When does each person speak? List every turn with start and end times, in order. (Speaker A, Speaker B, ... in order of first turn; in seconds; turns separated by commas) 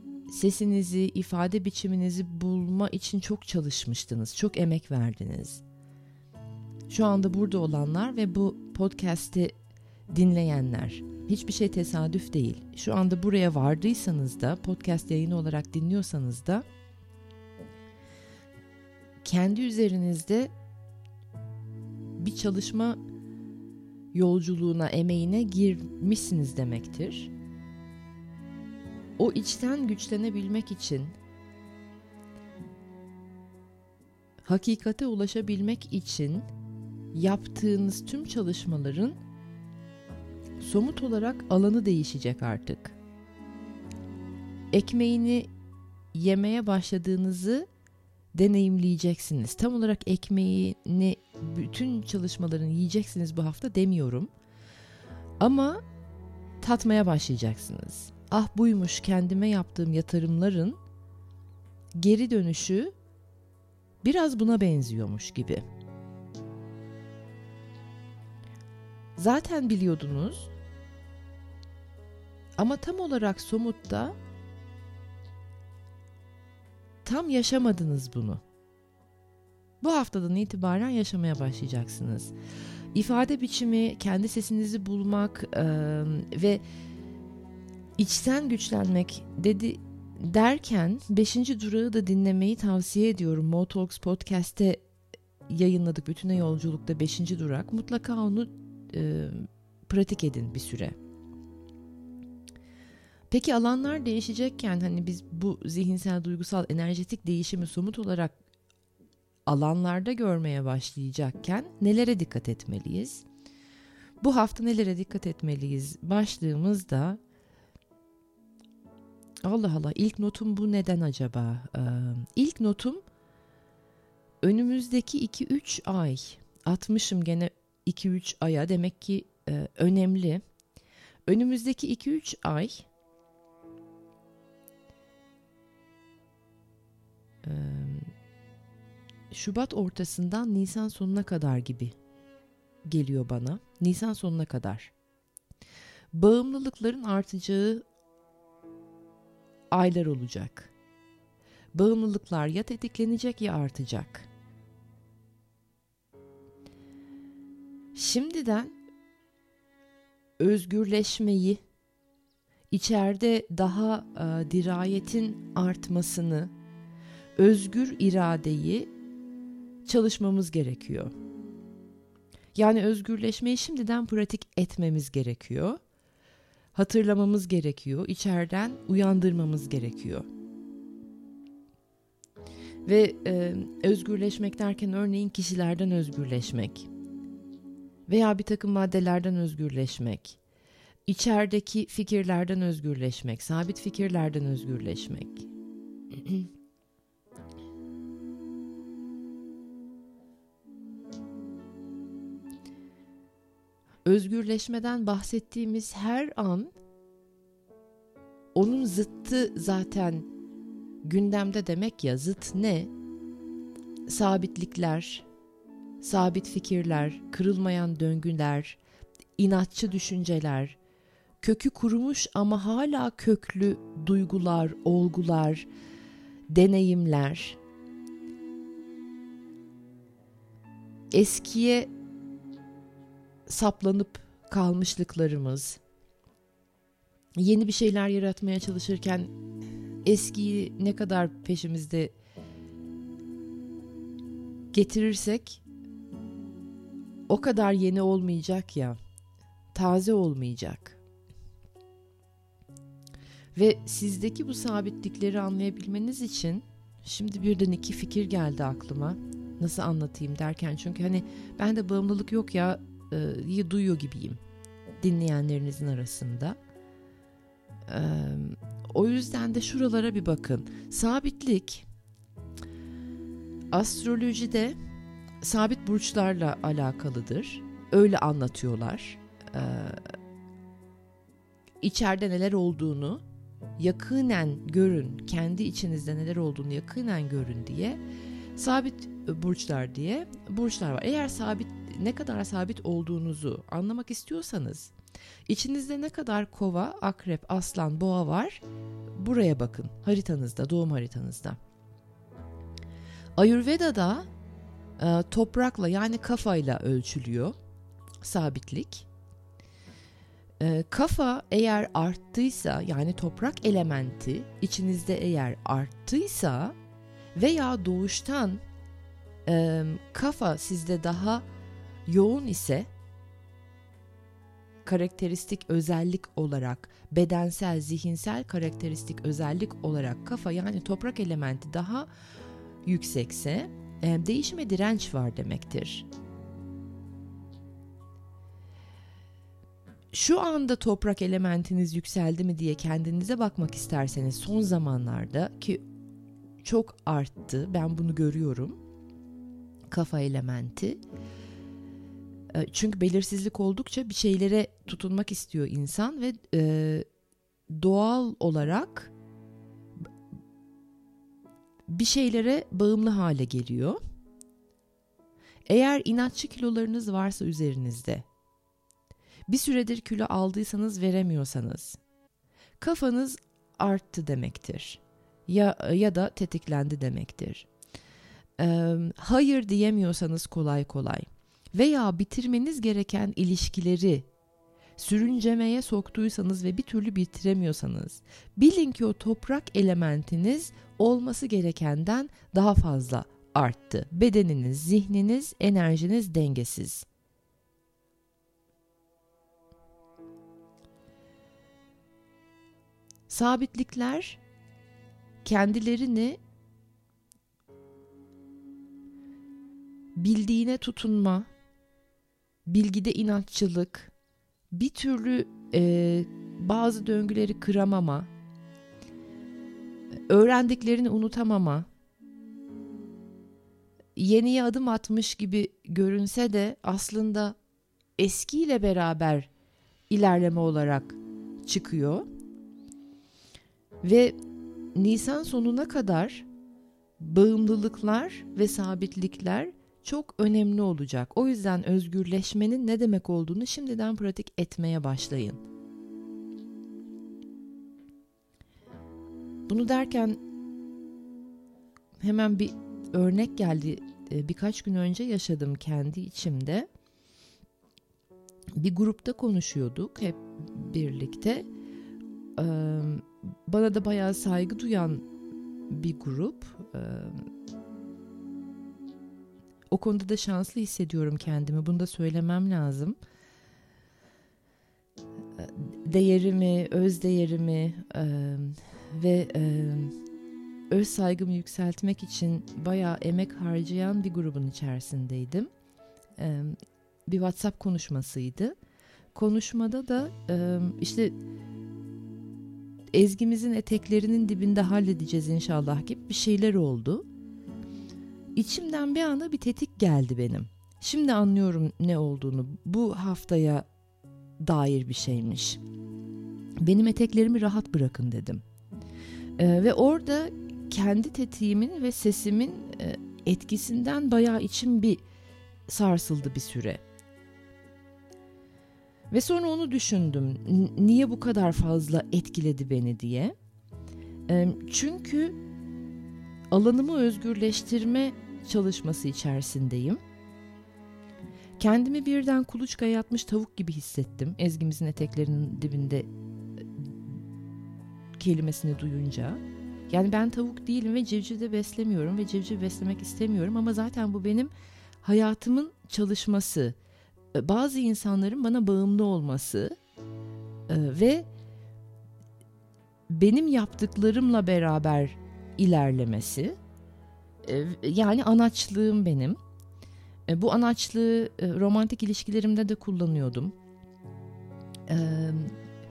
Speaker A: 0.3-5.6, Speaker A: 6.9-9.5, Speaker A: 10.1-16.6, Speaker A: 19.2-20.5, Speaker A: 22.2-23.0, Speaker A: 24.1-27.3, Speaker A: 29.2-31.1, Speaker A: 34.4-36.5, Speaker A: 37.1-39.2, Speaker A: 40.6-43.0, Speaker A: 44.7-45.5, Speaker A: 46.1-47.7, Speaker A: 48.3-54.3, Speaker A: 55.4-55.8, Speaker A: 56.6-60.8, Speaker A: 62.0-62.9, Speaker A: 64.0-65.6, Speaker A: 69.2-70.5, Speaker A: 72.6-74.2, Speaker A: 77.0-78.4, Speaker A: 79.8-82.3, Speaker A: 82.9-86.6, Speaker A: 88.0-94.8, Speaker A: 95.5-101.0, Speaker A: 103.3-108.3, Speaker A: 109.5-113.2, Speaker A: 114.2-117.2, Speaker A: 119.4-123.0, Speaker A: 124.4-130.4, Speaker A: 131.3-132.9, Speaker A: 137.4-138.1, Speaker A: 139.3-141.9, Speaker A: 142.9-144.9, Speaker A: 146.1-147.8, Speaker A: 149.7-150.7, Speaker A: 151.7-154.3, Speaker A: 157.9-158.8, Speaker A: 160.4-161.6, Speaker A: 162.7-166.5, Speaker A: 167.4-168.9, Speaker A: 169.8-171.1, Speaker A: 172.5-175.8, Speaker A: 176.8-180.3, Speaker A: 182.8-186.9, Speaker A: 188.1-190.4, Speaker A: 191.1-195.5, Speaker A: 196.1-196.5, Speaker A: 204.1-206.7, Speaker A: 208.5-210.3, Speaker A: 211.0-212.9, Speaker A: 214.1-215.3, Speaker A: 216.0-218.8, Speaker A: 219.4-220.8, Speaker A: 221.4-225.7, Speaker A: 226.5-227.6, Speaker A: 231.1-231.9, Speaker A: 233.5-235.8, Speaker A: 237.4-239.3, Speaker A: 240.1-242.1, Speaker A: 244.7-245.6, Speaker A: 247.3-249.0, Speaker A: 249.7-251.0, Speaker A: 253.6-264.4, Speaker A: 265.0-266.6, Speaker A: 267.9-271.9, Speaker A: 273.7-274.8, Speaker A: 275.4-280.1, Speaker A: 281.8-283.2, Speaker A: 283.8-288.0, Speaker A: 288.6-294.9, Speaker A: 295.5-298.6, Speaker A: 299.2-301.6, Speaker A: 303.4-304.3, Speaker A: 305.0-307.6, Speaker A: 308.2-309.1, Speaker A: 310.6-316.8, Speaker A: 317.4-318.6, Speaker A: 319.5-321.4, Speaker A: 322.1-322.9, Speaker A: 324.9-332.1, Speaker A: 332.9-336.1, Speaker A: 340.1-345.8, Speaker A: 346.6-348.8, Speaker A: 349.9-351.0, Speaker A: 352.5-357.1, Speaker A: 357.7-359.1, Speaker A: 361.9-364.0, Speaker A: 365.7-368.3, Speaker A: 369.5-372.0, Speaker A: 372.8-377.7, Speaker A: 378.6-384.3, Speaker A: 385.0-397.1, Speaker A: 403.3-404.4, Speaker A: 405.4-406.4, Speaker A: 410.1-411.5, Speaker A: 412.7-414.1, Speaker A: 414.7-418.3, Speaker A: 420.3-421.9, Speaker A: 424.2-427.6, Speaker A: 428.2-429.5, Speaker A: 430.1-432.3, Speaker A: 434.0-434.4, Speaker A: 434.9-436.5, Speaker A: 437.2-445.6, Speaker A: 449.7-450.4, Speaker A: 452.2-456.9, Speaker A: 458.8-461.7, Speaker A: 462.6-465.2, Speaker A: 465.9-467.4, Speaker A: 469.9-473.2, Speaker A: 475.6-480.1, Speaker A: 480.9-485.7, Speaker A: 486.4-488.8, Speaker A: 489.3-491.4, Speaker A: 493.1-497.3, Speaker A: 498.6-503.9, Speaker A: 504.6-505.8, Speaker A: 506.8-508.6, Speaker A: 509.6-515.2, Speaker A: 515.9-517.0, Speaker A: 519.3-523.5, Speaker A: 524.5-525.6, Speaker A: 526.7-530.2, Speaker A: 531.8-537.3, Speaker A: 538.4-547.0, Speaker A: 547.5-550.0, Speaker A: 550.9-551.5, Speaker A: 553.3-556.8, Speaker A: 557.6-559.6, Speaker A: 560.5-563.8, Speaker A: 565.1-565.8